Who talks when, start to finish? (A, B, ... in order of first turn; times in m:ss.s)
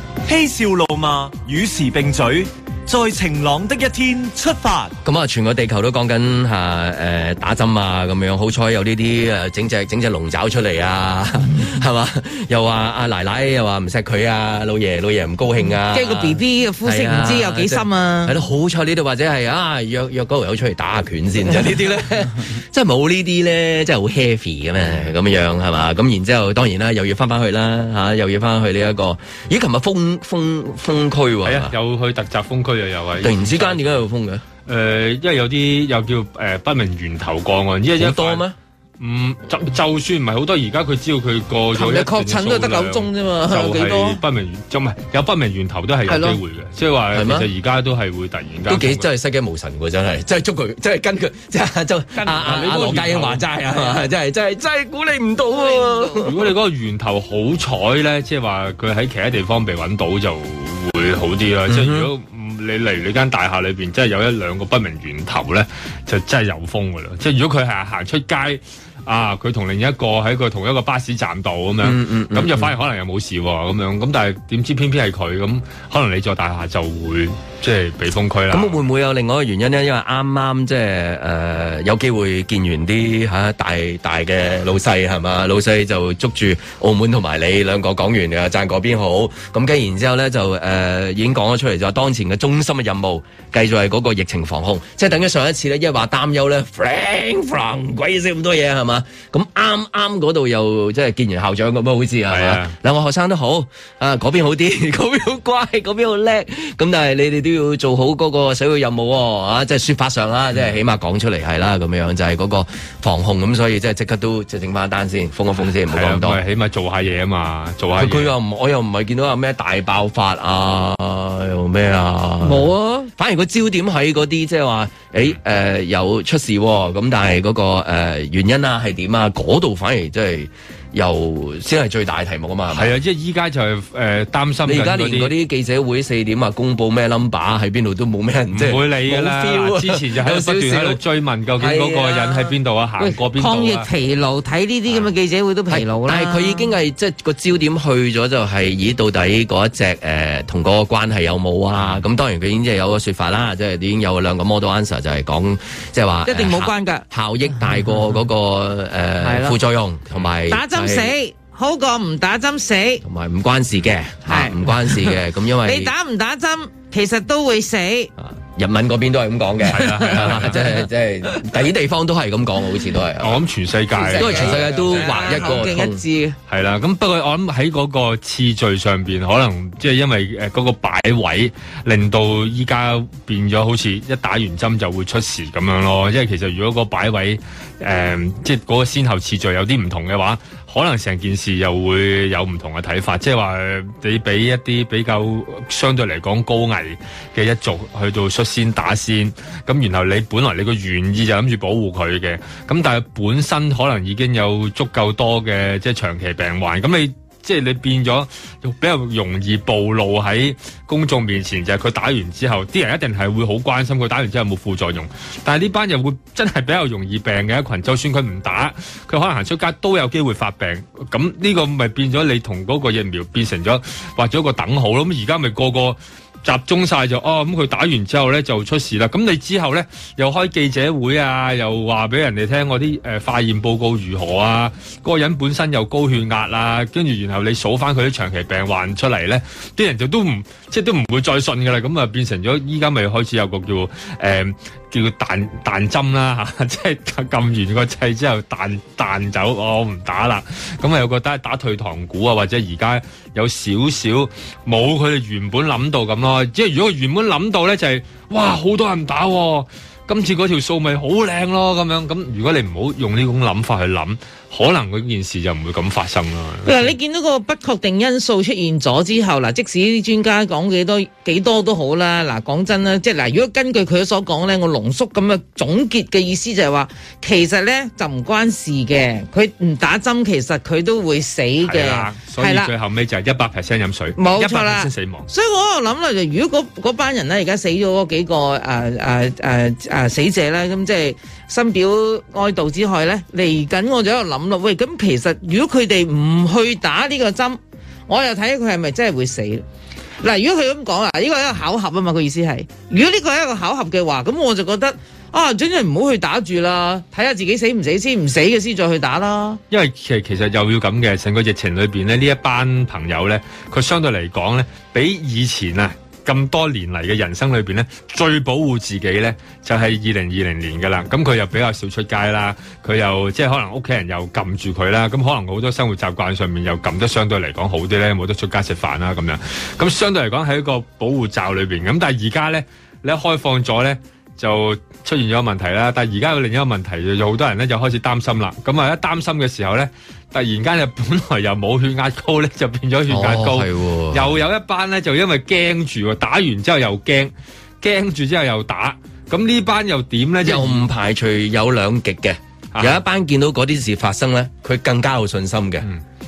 0:00.3-0:04.9 A
0:05.0-0:31.8 B
0:15.9-0:18.4 C
0:31.4-0:34.0 D
0:33.2-0:34.4 B
0:34.7-0:38.4 D
0:38.0-0:38.6 B
0:39.0-0:49.1 D
0:41.7-0:44.2 C
0:46.1-0:46.4 C
0:47.1-0:47.5 B
0:48.7-0:56.5 B
0:52.2-0:52.6 C
0:52.3-0:53.4 D
0:55.5-0:56.3 C
0:56.2-1:18.8 D
1:01.7-1:02.1 B
1:11.8-1:12.7 B
1:18.5-1:56.4 B
1:42.3-1:42.7 D
1:55.9-1:58.3 D
1:58.0-2:13.0 B
2:02.4-2:03.1 C
2:12.7-2:15.3 D
2:14.6-2:21.0 B
2:18.5-2:23.9 D
2:21.6-2:22.5 B
2:23.0-2:26.7 C
2:25.7-2:41.1 B
2:36.3-2:37.0 C
2:39.2-2:39.6 C
2:40.5-2:43.0 C
2:43.0-2:45.9 B
2:44.2-2:48.1 C
2:48.2-2:53.4 B
2:49.7-2:50.6 D
2:53.2-2:55.6 D
2:54.0-2:56.4 C
2:54.1-2:56.0 B
2:56.5-4:27.0 D
4:26.6-4:42.7 C
4:41.6-4:45.3 D
4:44.2-4:59.6 C
5:00.2-5:09.6 C
5:09.7-5:50.9 D
5:43.1-5:44.4 B
5:50.4-5:55.9 B
5:52.7-5:53.0 D